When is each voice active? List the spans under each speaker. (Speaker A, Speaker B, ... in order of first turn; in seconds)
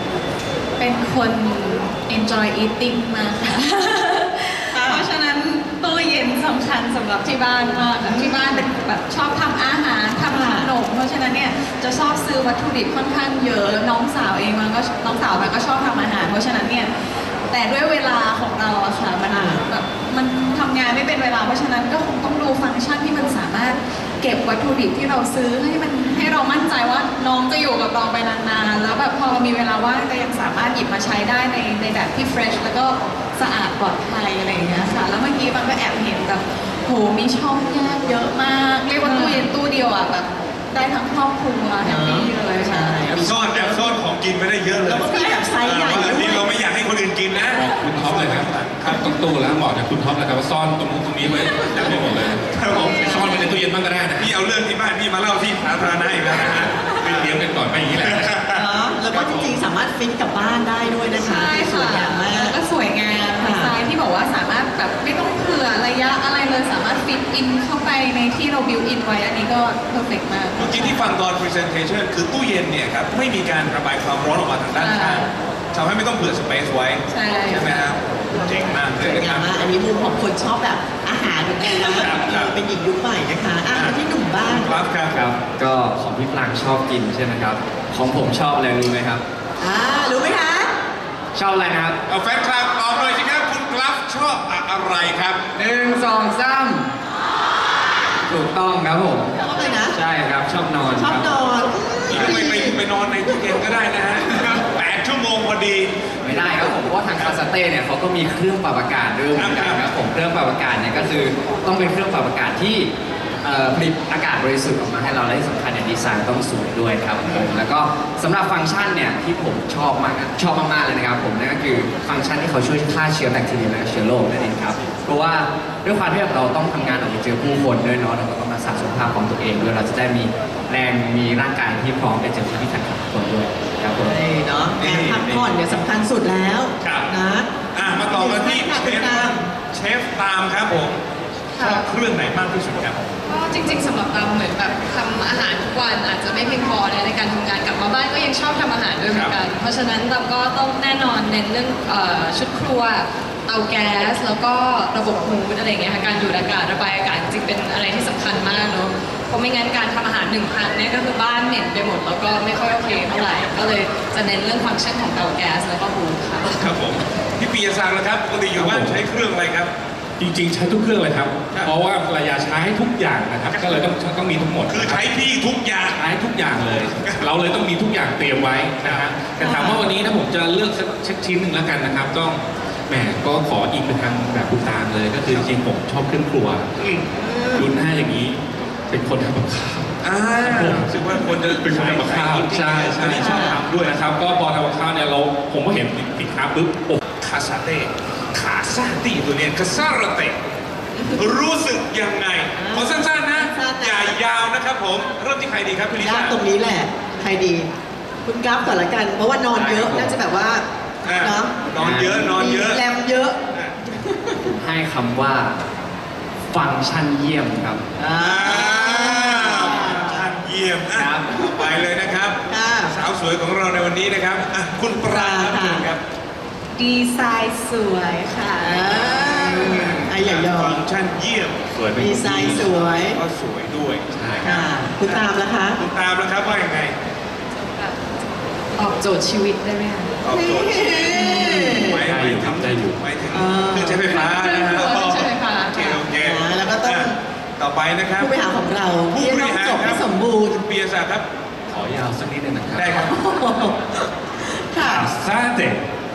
Speaker A: 0.8-42.9, 52.7-53.4, 61.2-71.0, 74.8-75.3, 77.1-77.8, 226.8-229.1, 244.0-245.8
Speaker B: 4.7-5.1, 8.0-8.7, 10.3-10.7, 19.3-19.6, 41.8-44.0, 44.8-46.5, 58.5-62.6, 63.4-63.7, 78.9-84.7, 89.6-90.7, 99.4-100.0, 101.0-102.8, 134.0-139.5, 179.4-179.8, 187.2-187.7, 193.1-193.6, 201.0-201.2, 202.6-204.2, 206.0-207.7, 208.2-214.4, 218.0-220.3, 222.5-223.0, 225.0-225.9, 228.6-230.8, 232.0-233.2, 234.4-235.8, 240.3-242.1, 243.3-244.0, 245.8-247.2, 248.2-250.6, 252.8-255.1
Speaker C: 39.0-39.4, 141.6-141.8, 143.3-166.7, 237.6-238.1, 238.8-240.1
Speaker D: 43.1-49.1, 52.5-53.2, 54.2-57.4, 58.0-59.5, 70.6-79.6, 81.6-82.6, 83.7-85.2, 92.1-95.4, 102.1-106.1, 109.3-109.8, 117.2-117.5, 136.8-137.1, 137.7-141.0, 141.6-143.2, 149.1-149.4, 166.6-169.7, 173.5-173.8, 174.7-176.0, 178.8-179.1, 186.8-187.1, 190.0-194.0, 197.1-200.4, 201.2-206.4, 211.1-212.8, 218.2-226.0, 229.2-231.9, 232.4-237.0, 240.2-248.4, 249.1-251.3, 252.8-253.1
Speaker E: 47.5-54.3, 56.5-58.4, 168.5-169.0, 170.2-175.1, 175.9-186.7, 187.6-197.0, 231.8-232.7, 234.1-234.6, 241.3-243.0, 251.7-252.9, 254.8-255.8
Speaker F: 85.1-89.2, 91.3-92.0, 95.5-97.0, 98.2-99.4, 99.9-101.4, 106.2-112.9, 113.4-134.2, 134.8-135.5, 209.6-210.2, 211.8-212.3, 214.4-215.6, 216.5-217.8, 220.9-221.7